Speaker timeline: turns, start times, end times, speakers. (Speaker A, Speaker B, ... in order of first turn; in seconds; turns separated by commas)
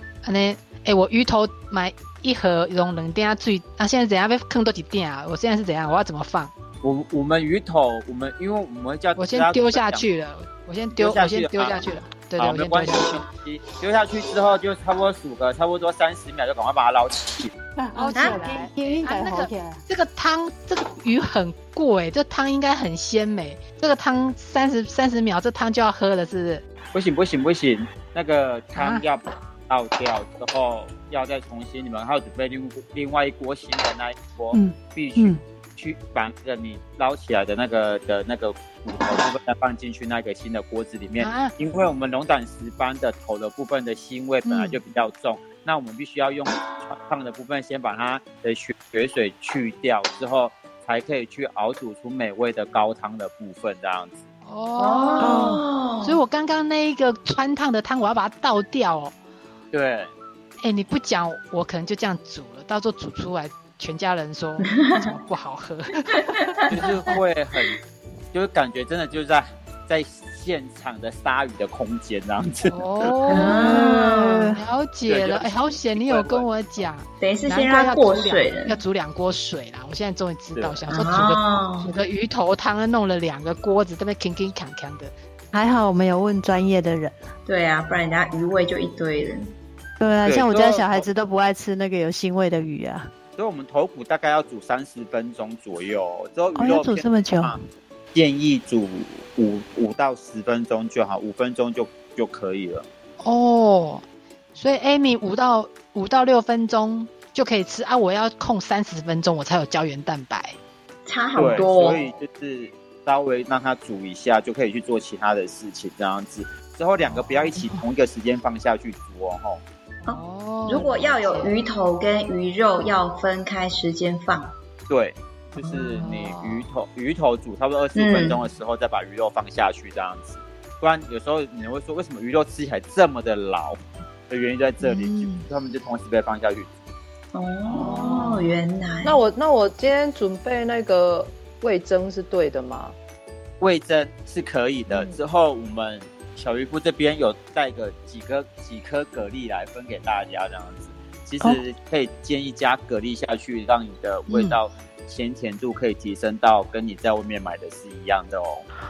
Speaker A: 0.2-6.5, Speaker B: 6.8-10.0, Speaker A: 9.2-13.2, Speaker B: 10.9-17.5, Speaker C: 17.8-19.8, Speaker A: 17.9-26.6, Speaker D: 18.1-18.5, Speaker B: 26.9-54.3, Speaker A: 28.7-29.0, Speaker C: 34.5-35.4, Speaker A: 41.2-41.5, Speaker A: 54.4-59.1, Speaker D: 54.8-56.2, Speaker C: 55.2-55.6, Speaker B: 59.7-60.1, Speaker A: 60.6-66.5, Speaker D: 64.7-65.2, Speaker D: 66.1-66.8, Speaker B: 66.7-67.8, Speaker B: 68.3-73.4, Speaker A: 72.7-85.1, Speaker D: 73.3-74.5, Speaker C: 73.3-74.6, Speaker B: 75.0-76.9, Speaker D: 77.2-78.8, Speaker B: 80.5-80.8, Speaker D: 80.9-81.9, Speaker C: 85.5-87.2, Speaker D: 87.5-89.5, Speaker C: 90.0-93.1, Speaker B: 90.2-91.1, Speaker B: 93.4-97.6, Speaker C: 96.5-97.6, Speaker B: 98.1-102.8, Speaker A: 103.2-104.0, Speaker A: 104.5-110.6, Speaker D: 111.0-112.1, Speaker B: 111.3-119.6, Speaker A: 117.0-117.8, Speaker A: 120.0-121.6, Speaker D: 120.0-124.5, Speaker B: 124.9-136.7, Speaker A: 126.0-126.6, Speaker D: 127.9-128.4, Speaker A: 134.8-135.4, Speaker D: 137.3-139.2, Speaker E: 137.7-142.9, Speaker B: 143.6-158.6, Speaker D: 144.9-145.2, Speaker A: 154.3-154.6